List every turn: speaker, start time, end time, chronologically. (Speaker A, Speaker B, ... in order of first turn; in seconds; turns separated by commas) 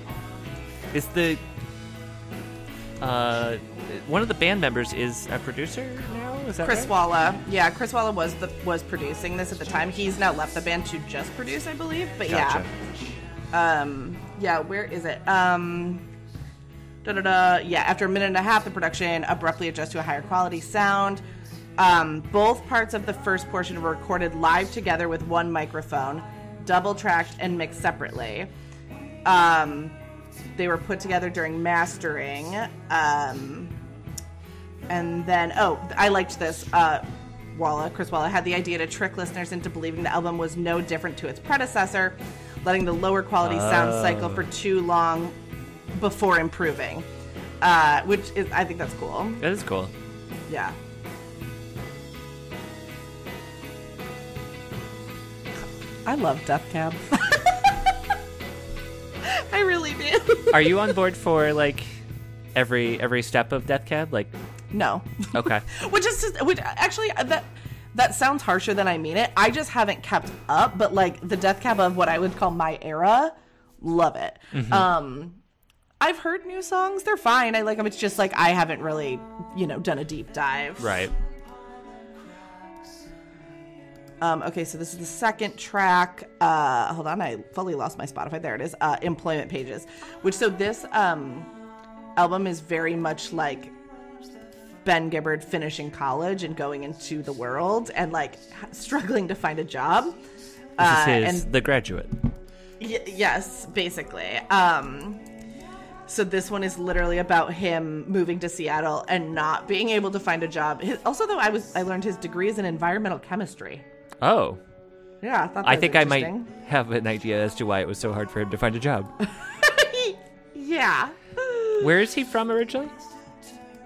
Speaker A: 0.9-1.4, Speaker A: 3.0-6.9, Speaker B: 6.6-12.7, Speaker A: 12.3-12.7, Speaker B: 13.5-16.1, Speaker B: 17.0-21.2, Speaker B: 21.8-28.5, Speaker B: 29.2-30.0, Speaker B: 30.5-33.8, Speaker B: 34.9-45.4, Speaker A: 43.4-44.5, Speaker B: 45.9-47.0, Speaker B: 47.6-49.4, Speaker A: 49.4-49.9, Speaker B: 50.5-50.8, Speaker B: 56.0-58.0, Speaker B: 59.2-60.9, Speaker A: 60.5-61.9, Speaker A: 62.5-64.3, Speaker B: 64.7-75.4, Speaker A: 65.3-65.6, Speaker A: 74.5-74.9, Speaker B: 76.0-81.0, Speaker A: 80.8-81.1, Speaker B: 84.2-91.5, Speaker B: 92.2-93.8, Speaker B: 94.8-100.2, Speaker B: 100.8-101.5, Speaker A: 100.8-102.1, Speaker B: 102.8-105.2, Speaker B: 106.1-113.8, Speaker A: 114.2-114.6, Speaker B: 115.2-116.5, Speaker A: 115.6-119.1, Speaker B: 119.2-121.9, Speaker A: 121.8-122.9